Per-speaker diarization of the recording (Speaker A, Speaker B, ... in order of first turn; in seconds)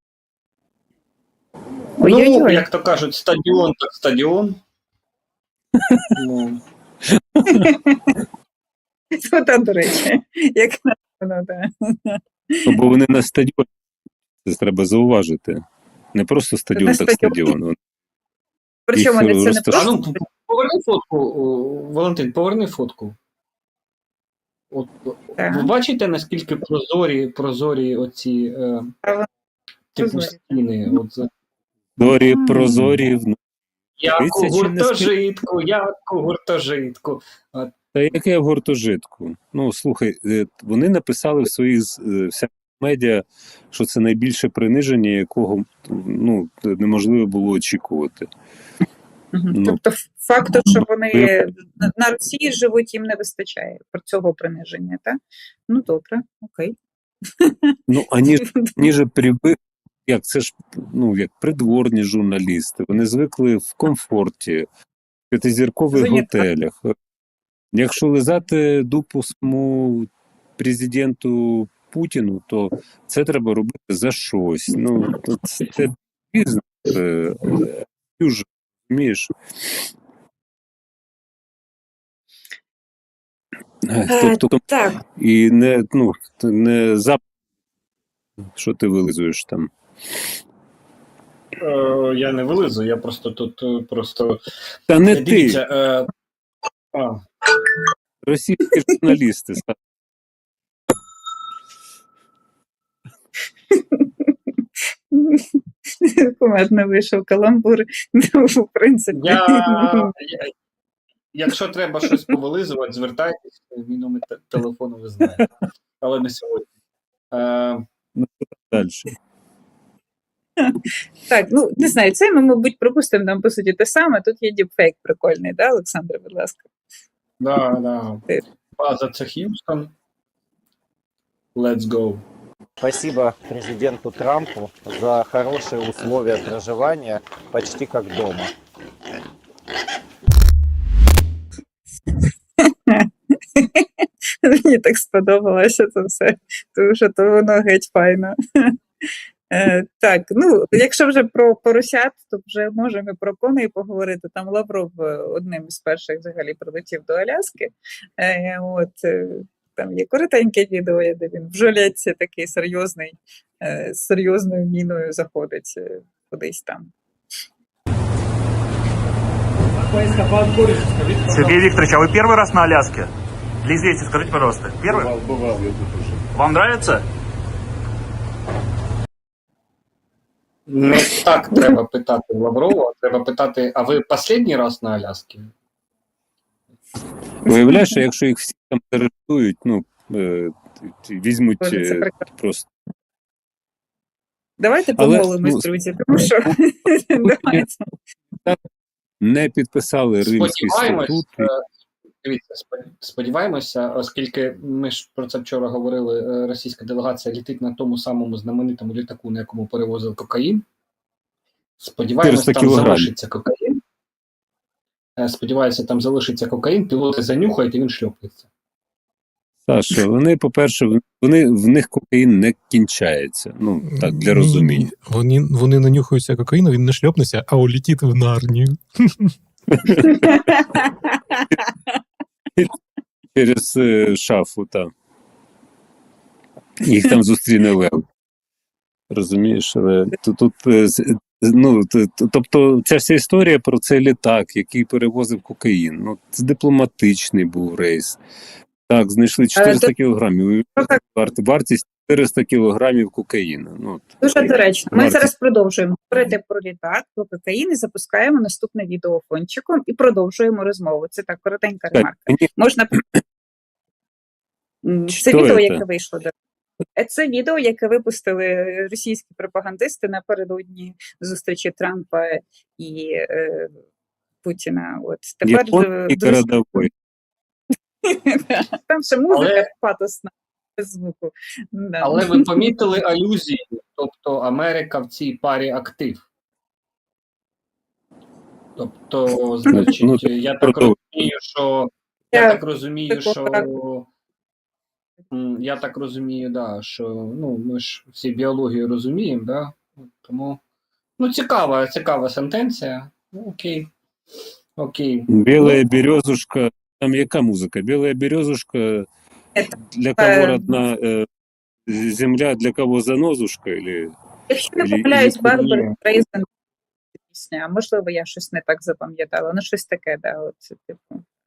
Speaker A: 2.0-2.6, 7.5-8.0, 9.2-12.7, 16.8-17.5, 18.9-20.0, 25.4-25.7, 30.0-30.5, 49.3-55.2, 55.7-56.8, 57.4-57.8, 58.4-58.8, 65.9-66.5, 84.1-85.0, 103.8-104.0, 105.1-105.4, 106.0-110.1, 120.6-126.7, 142.6-143.9, 144.4-148.8, 149.5-166.9, 187.5-187.9, 191.6-192.2, 194.6-197.8, 230.1-231.4, 249.6-249.9, 254.2-263.0, 264.8-266.3, 267.0-273.7, 274.4-276.9, 278.0-282.7, 292.3-293.7, 309.6-310.7, 314.5-316.5, 317.3-321.2
Speaker B: 2.0-4.6, 6.2-6.6, 19.7-23.2, 24.7-28.9, 29.9-31.3, 34.0-37.7, 91.6-94.4, 95.0-96.1, 96.9-97.2, 109.1-110.5, 111.3-115.5, 116.0-116.7, 117.3-117.8, 127.4-129.9, 131.6-132.2, 180.7-185.5, 200.2-201.7, 202.2-210.7, 211.8-213.8, 215.2-218.4, 279.3-279.7, 282.0-286.2, 288.8-294.1, 295.3-300.6, 301.2-303.9, 304.8-305.8, 315.5-315.9
Speaker C: 7.4-7.6, 12.7-13.7, 14.4-15.6, 16.1-17.8, 18.9-19.9, 32.0-33.4, 34.1-35.1, 37.9-48.3, 49.5-49.8, 57.9-64.7, 65.3-66.9, 67.7-79.3, 83.9-87.2, 88.5-89.7, 94.9-95.6, 98.2-99.8, 118.2-119.1, 187.5-192.7, 195.0-196.6, 197.2-197.7, 199.2-201.5, 212.2-213.1, 219.7-224.9, 229.7-230.5, 233.3-234.9, 236.8-238.0, 239.1-248.2, 248.9-255.3, 261.9-262.5, 265.1-265.8, 275.4-276.9, 289.7-291.0, 305.3-309.1, 309.9-311.3, 311.9-314.1, 314.8-315.7
Speaker D: 132.8-138.5
Speaker E: 171.3-173.1, 173.7-175.1, 176.3-177.0
Speaker F: 223.9-229.3